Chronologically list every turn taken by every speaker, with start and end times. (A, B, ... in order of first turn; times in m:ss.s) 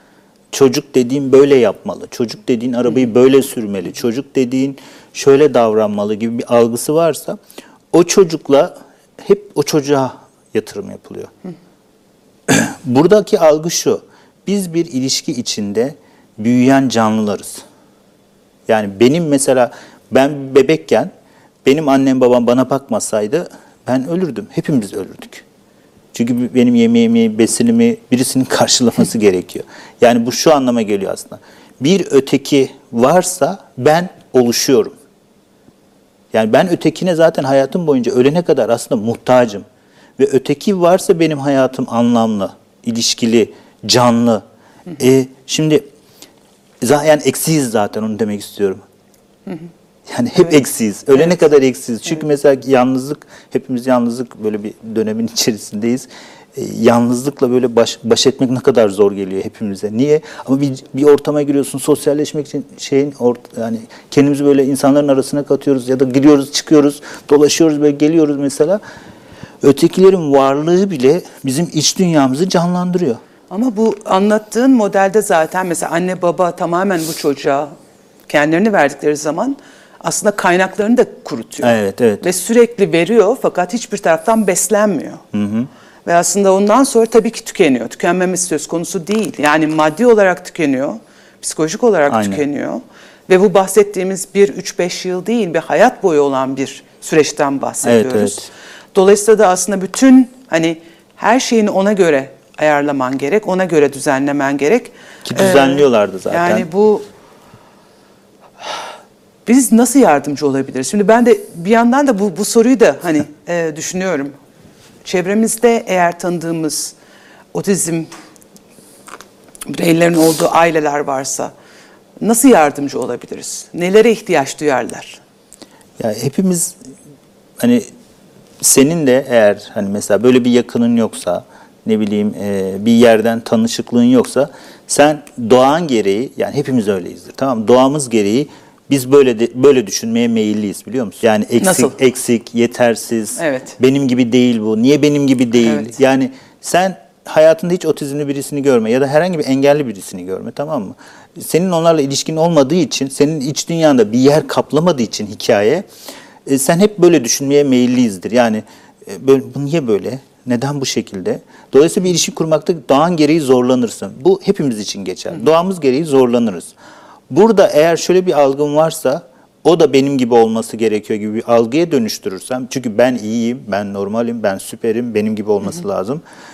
0:00.5-0:07.4 A
0:07.9-0:11.3 A
0:12.5-0:17.6 A
0:18.7-0:21.1 A
0:21.6-0:25.4 A
0:26.1-0:35.0 A
0:36.3-0:39.6 A
0:40.2-0:44.4 A
0:45.0-0:45.8 A
0:46.8-0:48.8 A
0:50.1-1:08.8 A
1:09.6-1:13.2 A
1:13.5-1:17.7 B
1:18.3-1:25.2 B
1:21.6-1:22.3 A
1:25.3-1:25.7 A
1:26.0-1:47.0 B
1:32.1-1:32.4 A
1:37.8-1:38.5 A
1:45.2-1:46.7 A
1:49.4-1:54.3 B
1:55.0-1:56.9 B
1:57.5-1:58.1 B
1:59.7-2:01.5 B
2:02.2-2:05.2 B
2:06.0-2:06.7 A
2:07.6-2:07.8 A
2:08.6-2:35.8 A
2:21.6-2:21.9 B
2:23.4-2:23.8 B
2:25.6-2:26.0 B
2:36.4-2:46.7 A
2:47.3-2:56.2 A